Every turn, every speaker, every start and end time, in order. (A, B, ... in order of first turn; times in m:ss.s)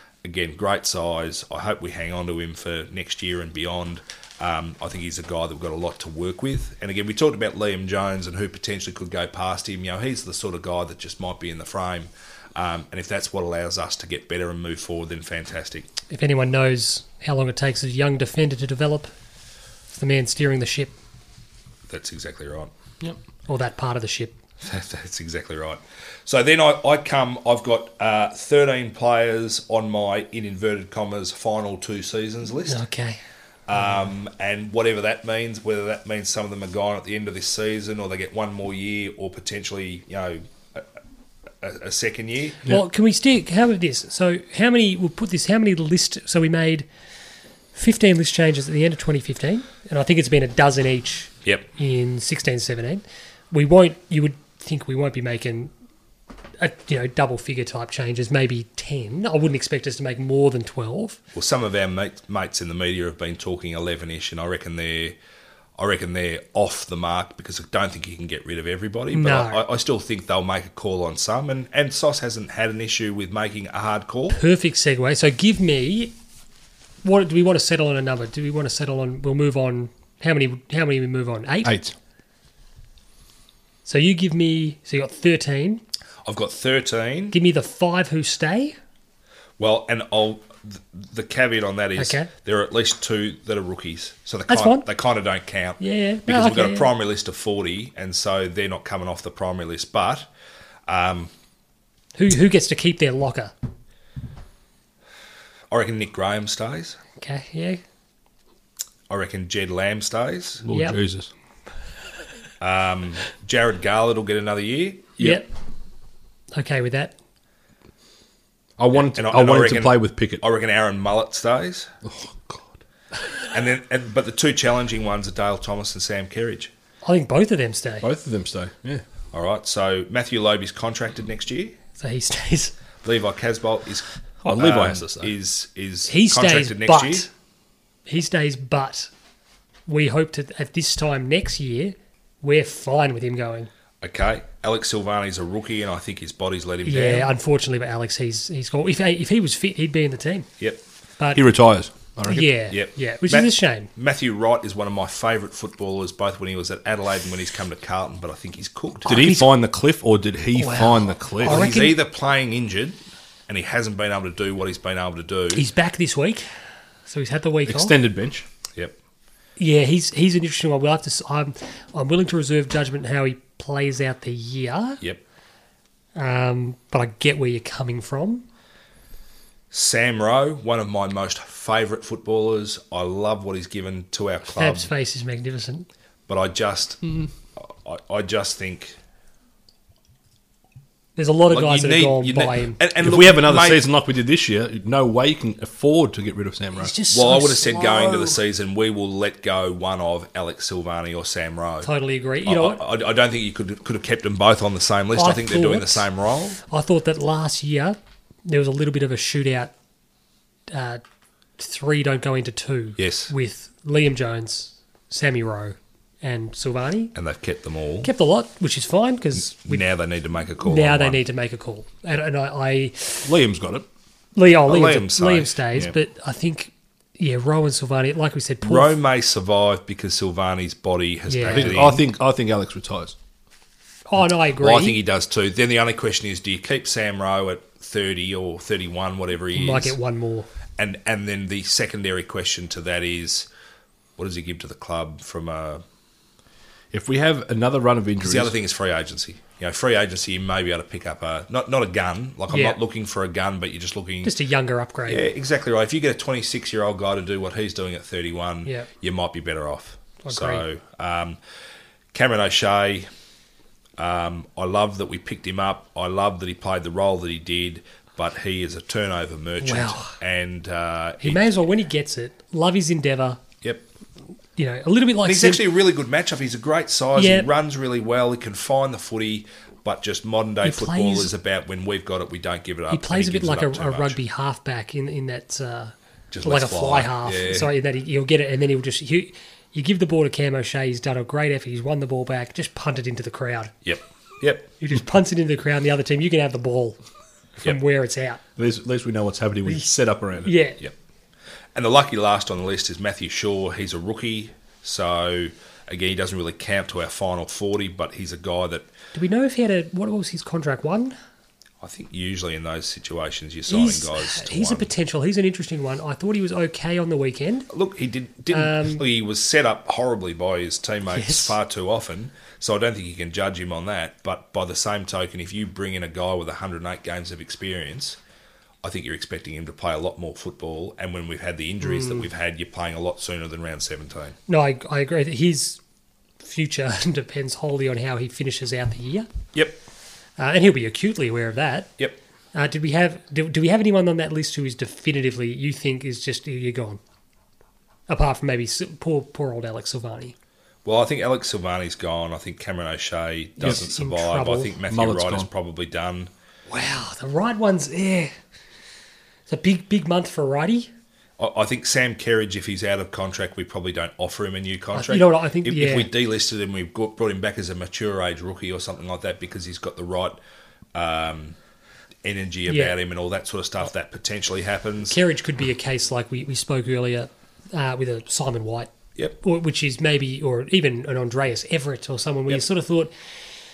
0:00.2-0:15.9 A
0:16.1-0:19.1 B
0:19.9-0:20.9 B
0:21.9-0:22.7 A
0:23.5-0:24.4 B
0:24.6-0:32.8 A
0:32.7-0:33.2 B
0:33.7-0:40.9 A
0:41.6-0:42.6 A
0:42.7-0:46.9 B
0:47.7-0:55.7 B
0:56.6-1:01.2 B
1:01.3-1:05.2 A
1:05.8-1:14.4 A
1:09.1-1:09.6 B
1:14.3-1:16.1 B
1:17.0-1:21.8 B
1:21.6-1:21.9 C
1:23.8-1:25.8 B
1:26.2-1:27.4 A
1:27.3-1:28.8 B
1:29.6-1:40.3 A
1:32.0-1:32.3 B
1:34.5-1:34.9 B
1:35.8-1:36.9 B
1:40.9-1:41.3 A
1:42.2-1:43.5 B
1:45.7-1:47.0 A
1:47.2-1:47.8 B
1:49.1-1:50.6 A
1:50.6-1:51.3 C
1:50.7-1:51.0 B
1:52.6-1:55.2 A
1:55.2-1:55.5 B
1:56.5-1:57.1 B
1:58.8-2:00.4 C
1:59.1-2:01.9 A
2:02.0-2:02.8 C
2:03.5-2:06.7 A
2:07.0-2:08.1 B
2:08.0-2:09.0 C
2:09.3-2:11.8 A
2:12.0-2:12.7 B
2:13.0-2:17.3 A
2:14.4-2:15.3 C
2:16.1-2:17.3 B
2:18.1-2:19.1 B
2:19.9-2:23.7 B
2:24.0-2:27.3 A
2:26.9-2:30.5 B
2:31.4-2:32.5 C
2:32.3-2:33.9 B
2:32.7-2:39.2 A
2:39.1-2:39.5 B
2:39.1-2:41.7 C
2:40.6-2:42.0 B
2:41.4-2:45.6 A
2:45.5-2:46.4 B
2:47.1-2:47.9 B
2:47.7-2:48.5 C
2:49.6-2:55.0 B
2:56.2-2:58.4 B
2:59.7-3:04.9 A
3:04.5-3:05.9 B
3:06.3-3:07.0 A
3:07.6-3:09.0 A
3:11.2-3:12.8 B
3:11.5-3:13.8 A
3:13.0-3:16.9 C
3:16.8-3:18.4 B
3:17.1-3:21.9 A
3:21.8-3:22.8 B
3:22.4-3:26.6 A
3:25.2-3:26.1 B
3:26.6-3:29.7 B
3:30.7-3:31.0 B
3:31.6-3:37.1 B
3:33.0-3:33.3 A
3:37.2-3:38.1 A
3:38.0-3:39.8 B
3:39.4-3:41.2 A
3:40.6-3:43.3 B
3:43.2-3:43.8 C
3:44.4-3:48.9 B
3:44.7-3:46.0 A
3:48.6-3:52.0 A
3:51.3-3:52.0 B
3:51.4-3:53.2 C
3:54.1-3:55.0 B
3:54.6-4:00.0 A
3:59.5-4:00.5 B
4:00.8-4:03.5 A
4:04.2-4:05.8 A
4:06.9-4:08.5 C
4:08.2-4:14.3 A
4:12.5-4:12.8 B
4:14.2-4:15.2 B
4:15.1-4:21.4 A
4:20.2-4:20.6 B
4:22.1-4:23.1 A
4:24.0-4:31.5 A
4:29.6-4:30.2 B
4:31.2-4:33.4 B
4:34.6-4:35.6 B
4:35.2-4:44.2 A
4:37.2-4:37.5 B
4:40.6-4:41.3 B
4:42.9-4:53.7 B
4:46.3-4:47.7 A
4:53.8-4:54.7 A
4:54.8-4:57.0 B
4:57.6-4:58.4 B
4:58.6-5:00.5 C
5:00.4-5:00.8 B
5:01.8-5:08.9 A
5:09.2-5:11.2 B
5:11.8-5:14.9 A
5:13.7-5:17.7 B
5:17.7-5:28.2 A
5:18.5-5:19.0 B
5:21.1-5:21.5 B
5:28.8-5:34.4 A
5:31.8-5:32.3 B
5:34.5-5:35.8 B
5:36.4-5:39.3 B
5:40.4-5:41.9 B
5:42.5-5:47.0 B
5:48.1-5:50.4 B
5:50.8-5:56.3 A
5:53.6-5:54.8 B
5:54.9-5:55.5 C
5:56.7-5:58.3 B
5:59.5-6:00.9 B
6:01.4-6:10.4 A
6:04.9-6:06.1 B
6:10.9-6:11.6 A
6:12.2-6:15.2 A
6:12.7-6:13.0 B
6:15.1-6:23.1 B